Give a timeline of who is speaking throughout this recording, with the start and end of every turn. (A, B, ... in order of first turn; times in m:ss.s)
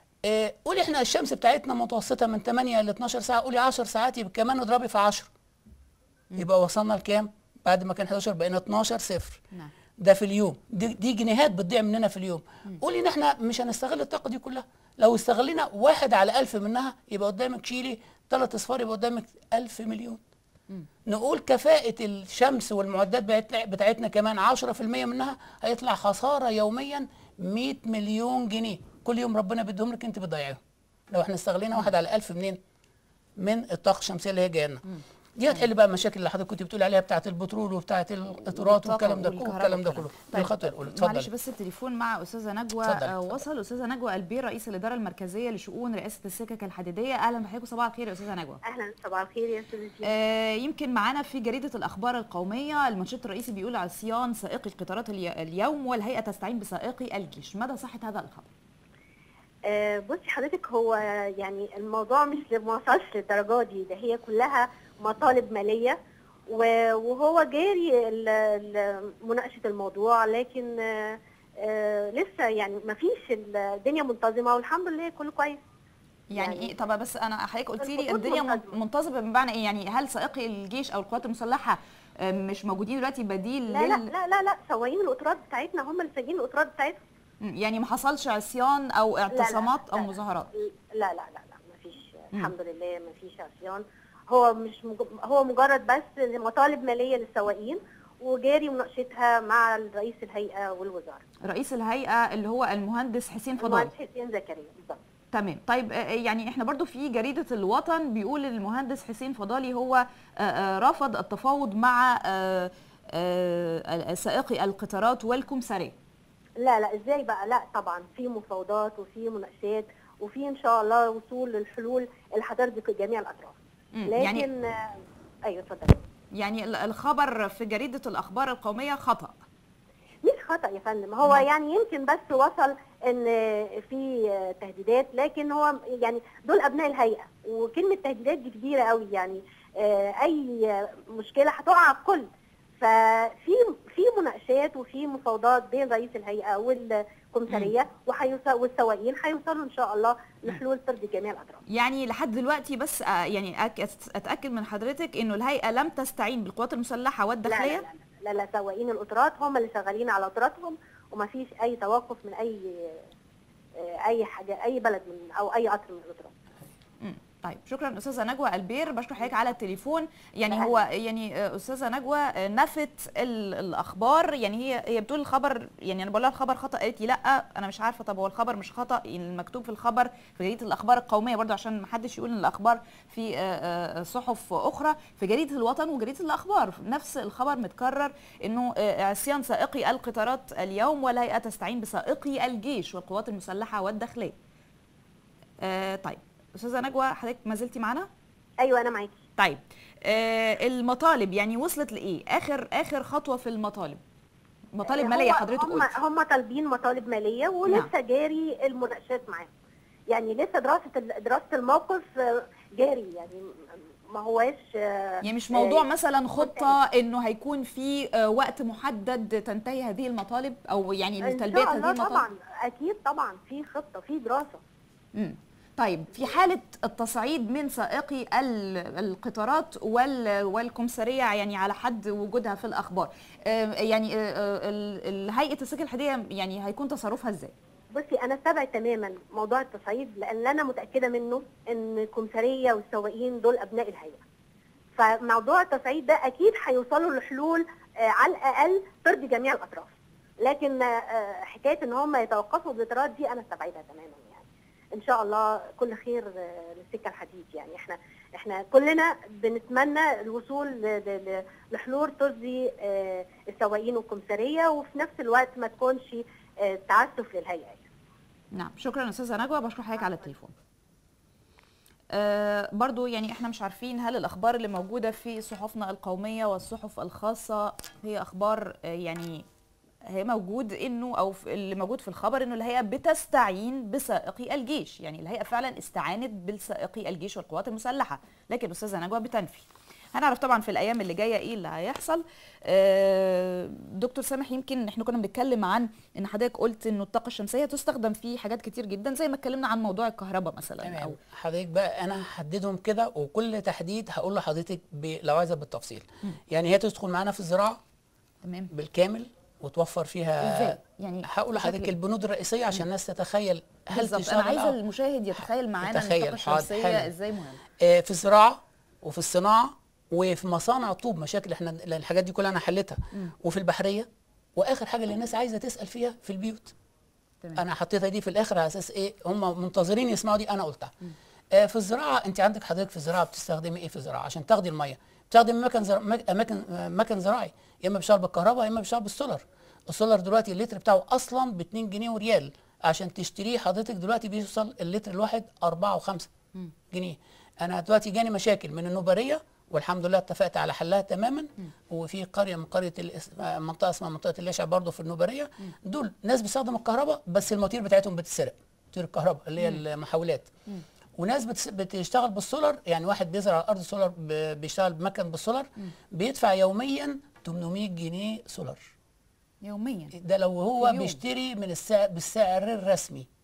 0:00.2-0:05.3 A
0:06.4-0:09.4 A
0:10.0-0:20.2 A
0:21.1-0:32.6 A
0:33.4-0:34.8 A
0:35.4-0:41.3 A
0:38.5-0:48.6 B
0:42.8-0:43.4 A
0:48.6-0:50.1 C
0:50.0-0:58.5 B
0:59.7-1:06.0 C
1:06.5-1:15.6 C
1:16.3-1:24.1 B
1:16.4-1:16.7 C
1:17.8-1:18.8 C
1:23.7-1:27.0 C
1:27.4-1:30.5 B
1:29.3-1:41.2 C
1:41.4-1:43.9 B
1:43.6-1:45.0 C
1:45.3-1:56.0 B
1:56.6-2:03.6 C
2:04.0-2:04.5 B
2:04.1-2:06.0 C
2:06.4-2:09.4 B
2:10.2-2:22.3 C
2:22.8-2:31.6 C
2:31.7-2:37.8 B
2:37.5-2:43.0 C
2:43.8-2:46.3 C
2:47.0-3:14.4 B
2:50.5-2:50.8 C
3:15.6-3:18.1 B
3:18.6-3:19.2 C
3:19.4-3:24.0 B
3:24.8-3:26.0 B
3:24.8-3:29.5 C
3:30.1-3:33.5 C
3:34.1-3:35.9 C
3:35.2-3:42.2 B
3:36.4-3:36.7 C
3:41.2-3:44.6 C
3:45.2-3:57.5 B
3:57.9-4:04.2 C
4:05.0-4:27.8 C
4:28.5-4:30.5 B
4:32.1-4:39.4 B
4:40.0-5:01.2 B
5:00.8-5:07.8 A
5:08.4-5:08.7 B
5:08.7-5:14.8 A
5:10.4-5:11.9 B
5:13.9-5:17.6 B
5:15.4-5:17.1 A
5:17.8-5:26.7 A
5:27.6-5:30.9 A
5:31.5-5:46.3 A
5:46.9-6:00.5 A
6:01.2-6:08.9 A
6:09.6-6:10.2 B
6:10.2-6:13.3 A
6:10.8-6:11.2 B